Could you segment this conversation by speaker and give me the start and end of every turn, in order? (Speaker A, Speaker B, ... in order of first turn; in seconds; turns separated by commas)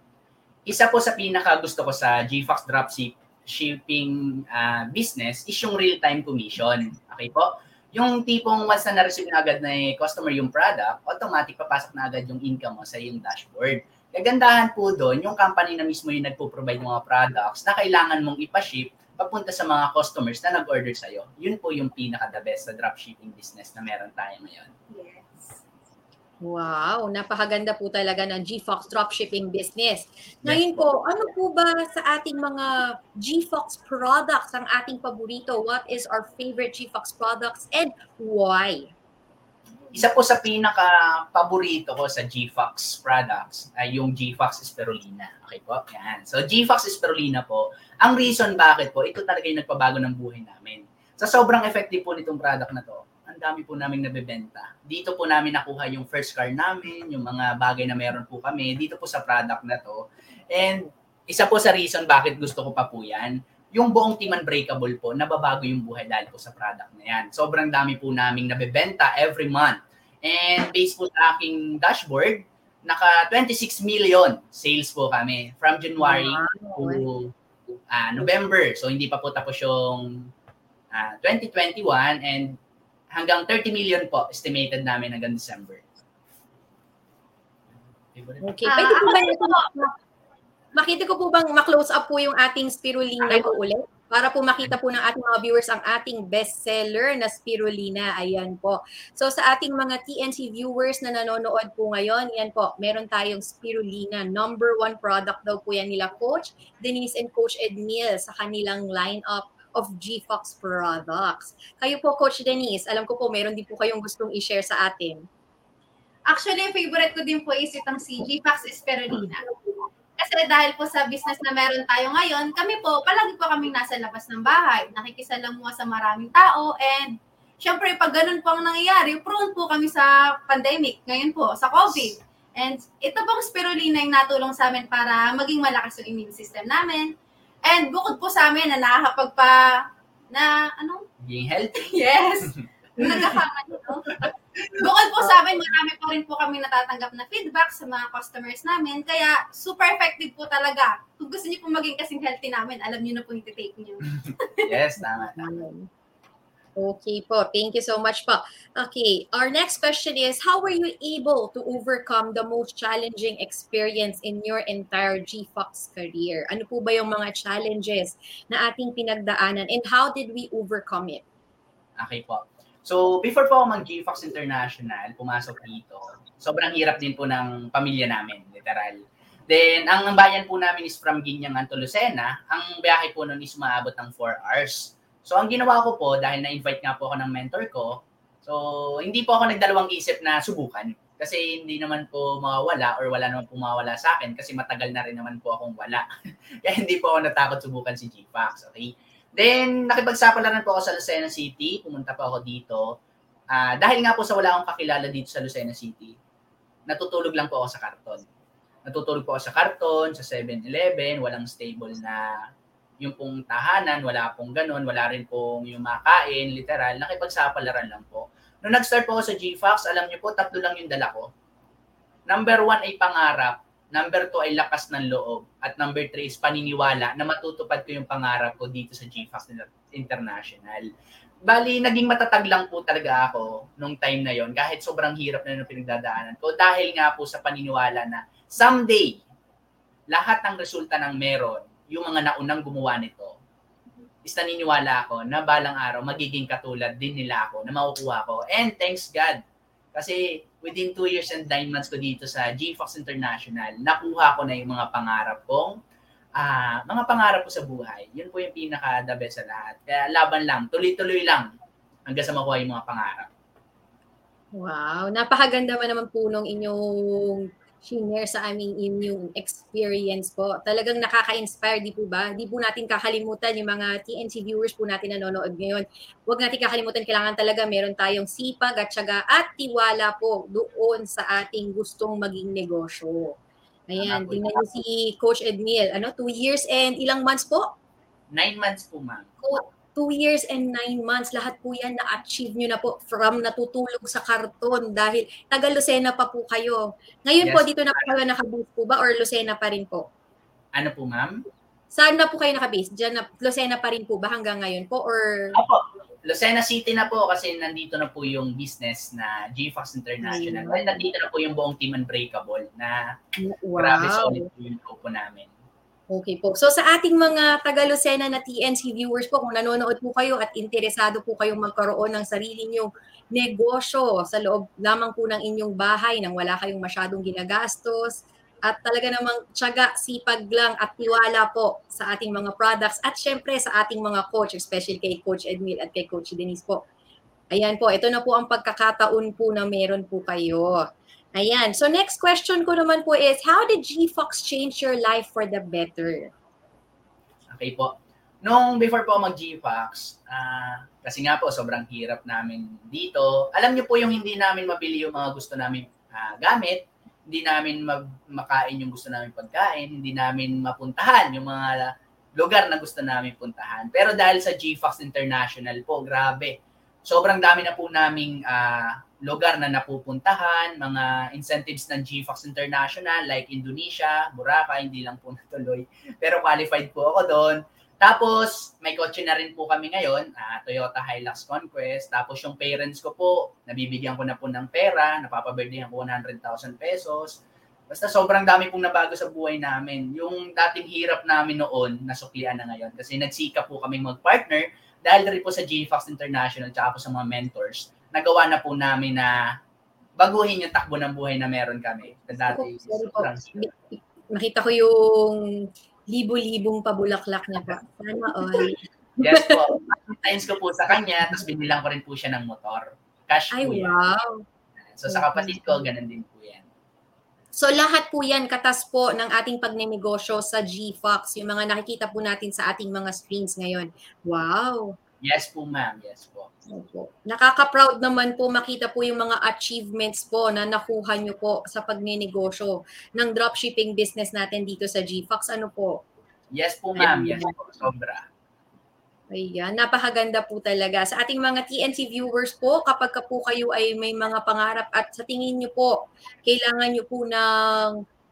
Speaker A: 0.7-24.7, Speaker B: 24.9-25.6, Speaker C: 26.4-38.9, Speaker A: 30.4-30.9, Speaker A: 39.9-77.3, Speaker C: 76.0-77.1, Speaker A: 77.9-80.1, Speaker A: 80.9-82.6, Speaker A: 83.1-85.8, Speaker A: 88.1-88.4, Speaker C: 88.4-89.9, Speaker B: 88.7-89.7, Speaker C: 90.8-115.2, Speaker B: 116.3-119.5, Speaker B: 120.2-137.1, Speaker B: 137.7-139.6, Speaker B: 140.3-141.0, Speaker A: 141.2-142.0, Speaker B: 141.8-154.7, Speaker A: 142.5-143.2, Speaker A: 144.2-144.8, Speaker A: 154.3-155.4, Speaker C: 155.4-155.9, Speaker C: 156.8-171.2, Speaker A: 172.0-196.1, Speaker A: 196.6-203.0, Speaker A: 203.5-206.2, Speaker A: 206.9-208.3, Speaker A: 208.9-212.3, Speaker A: 213.0-221.3, Speaker A: 222.3-230.9, Speaker A: 231.5-239.2, Speaker A: 240.1-243.4, Speaker A: 244.2-249.4, Speaker A: 249.9-255.8, Speaker A: 256.4-261.5, Speaker A: 262.1-263.3, Speaker C: 264.6-283.4, Speaker C: 283.9-287.7, Speaker A: 284.0-284.6, Speaker A: 288.3-289.3, Speaker C: 289.4-300.1, Speaker A: 297.4-298.1, Speaker A: 300.8-301.3, Speaker C: 301.9-305.5, Speaker A: 305.6-313.0, Speaker C: 310.2-311.1, Speaker C: 313.4-314.5, Speaker A: 313.8-315.5, Speaker C: 316.1-336.8, Speaker C: 337.5-340.8, Speaker C: 341.4-346.3, Speaker A: 347.5-387.4, Speaker A: 387.9-399.3, Speaker A: 400.2-403.7, Speaker C: 402.5-405.4, Speaker C: 406.1-410.0, Speaker A: 409.2-413.9, Speaker C: 413.5-414.4, Speaker A: 414.8-416.7, Speaker C: 415.1-415.8, Speaker C: 417.6-424.9, Speaker A: 425.2-426.5, Speaker C: 426.7-436.0, Speaker A: 436.5-438.2, Speaker C: 437.0-437.5, Speaker C: 439.3-448.0